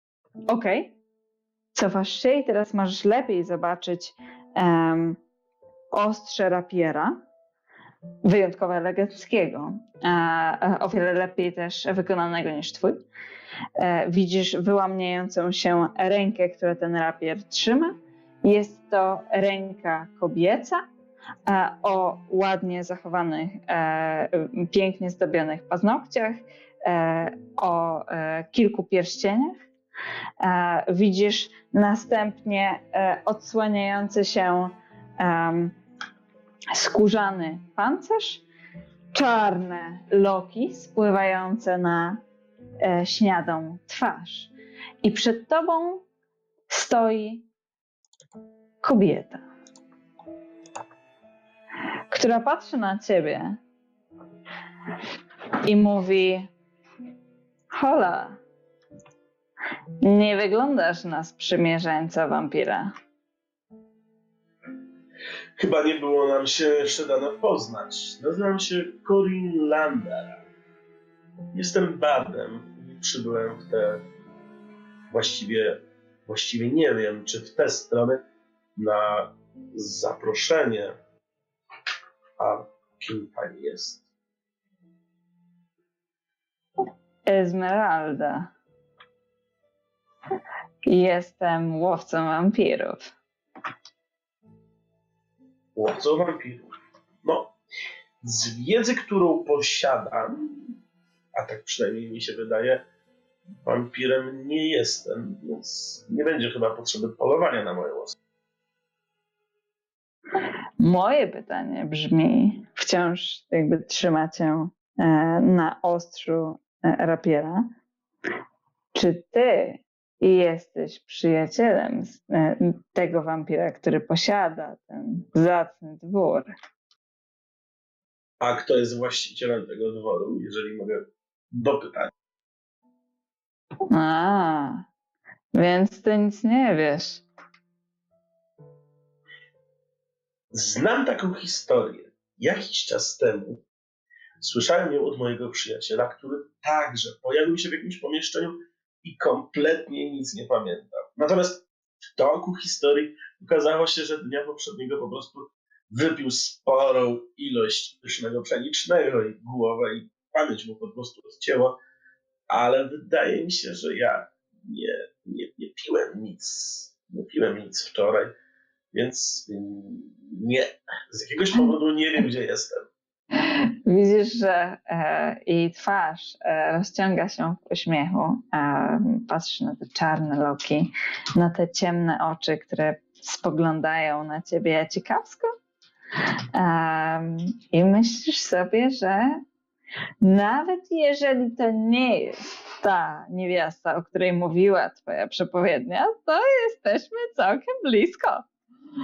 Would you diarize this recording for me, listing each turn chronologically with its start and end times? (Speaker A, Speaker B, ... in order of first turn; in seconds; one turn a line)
Speaker A: 0.5-1.0
Speaker A: 1.8-5.2
Speaker A: 5.9-7.1
Speaker A: 8.2-13.0
Speaker A: 13.8-20.8
Speaker A: 21.5-29.7
Speaker A: 30.4-35.8
Speaker A: 36.7-38.5
Speaker A: 39.1-42.2
Speaker A: 42.8-46.1
Speaker A: 46.7-47.5
Speaker A: 48.8-49.4
Speaker A: 52.1-53.6
Speaker A: 55.7-56.5
Speaker A: 57.7-58.4
Speaker A: 60.0-62.9
Speaker B: 65.6-70.4
Speaker B: 71.5-74.1
Speaker B: 75.1-78.2
Speaker B: 78.8-80.9
Speaker B: 82.4-84.1
Speaker A: 87.3-88.5
Speaker A: 90.9-93.1
Speaker B: 95.8-96.7
Speaker B: 97.2-97.5
Speaker B: 98.2-100.8
Speaker B: 101.3-102.8
Speaker B: 103.6-108.2
Speaker A: 110.8-117.7
Speaker A: 118.9-126.5
Speaker B: 128.4-132.1
Speaker A: 133.9-134.8
Speaker A: 135.5-137.2
Speaker B: 140.5-143.6
Speaker B: 144.4-151.7
Speaker B: 152.2-161.8
Speaker B: 162.5-168.3
Speaker B: 168.9-172.9
Speaker A: 173.4-185.5
Speaker A: 186.5-189.4
Speaker A: 190.2-198.5